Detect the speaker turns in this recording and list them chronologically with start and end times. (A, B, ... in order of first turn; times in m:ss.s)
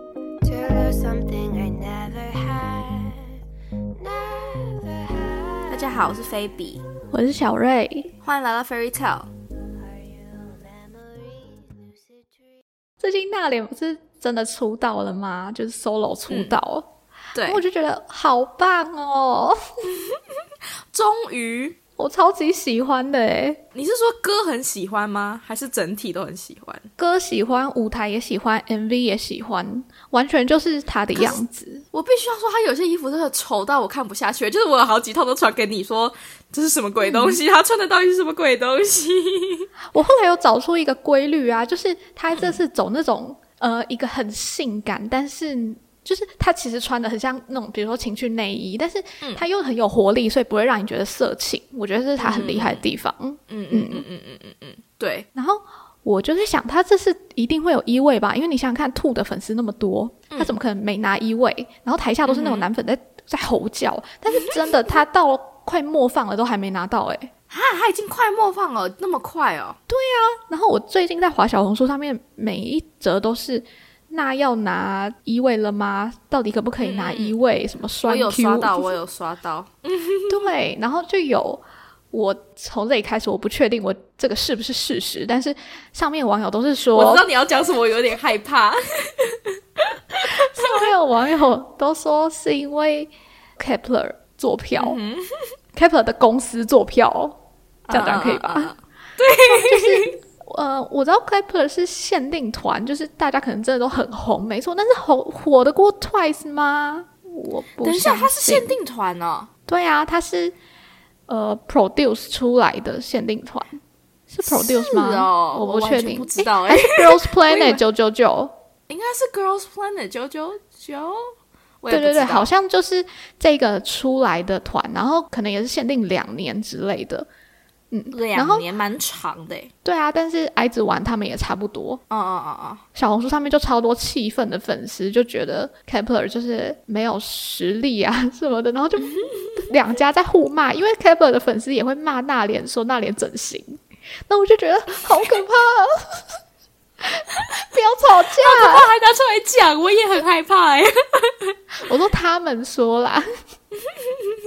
0:00.4-0:03.3 A
0:04.0-0:06.1 A
0:05.7-0:06.8 B
0:07.1-0:08.1 C
0:08.2-0:09.3 B
0:09.6-0:12.6 A
0:13.0-0:16.9 C
0:16.3-0:16.6 B
0:17.3-0:17.6 B
0:17.4-0:19.6 C
0:19.8-0:21.8 B
0:22.0-0:23.6 C
0:23.8-0:26.9 B
0:27.0-0:31.9 C
0:31.2-0:31.4 B
0:31.9-0:39.7 B
0:37.0-0:37.4 C
0:39.9-0:54.1 C
0:42.3-0:42.6 B
0:52.2-0:52.9 B
0:53.5-0:55.3 B
0:55.4-1:07.3 C
1:02.3-1:02.7 B
1:04.4-1:04.7 B
1:07.5-1:09.8 B
1:09.9-1:18.9 C
1:16.8-1:17.4 B
1:18.0-1:20.4 B
1:20.3-1:27.3 C
1:26.9-1:30.9 B
1:30.4-1:35.0 C
1:34.8-1:35.5 B
1:35.8-1:37.4 C
1:37.9-1:40.2 B
1:37.9-1:38.8 C
1:39.4-1:48.8 C
1:47.8-1:49.5 B
1:49.7-1:50.6 C
1:51.3-1:53.7 C
1:54.3-1:58.5 C
1:54.5-1:57.8 B
1:58.9-2:02.5 B
2:01.9-2:07.3 C
2:07.9-2:08.7 C
2:08.1-2:09.7 B
2:09.8-2:12.0 C
2:12.1-2:12.8 B
2:13.0-2:26.2 C
2:19.2-2:19.6 B
2:27.0-2:28.9 C
2:28.3-2:31.6 B
2:31.8-2:33.3 C
2:33.8-2:34.4 B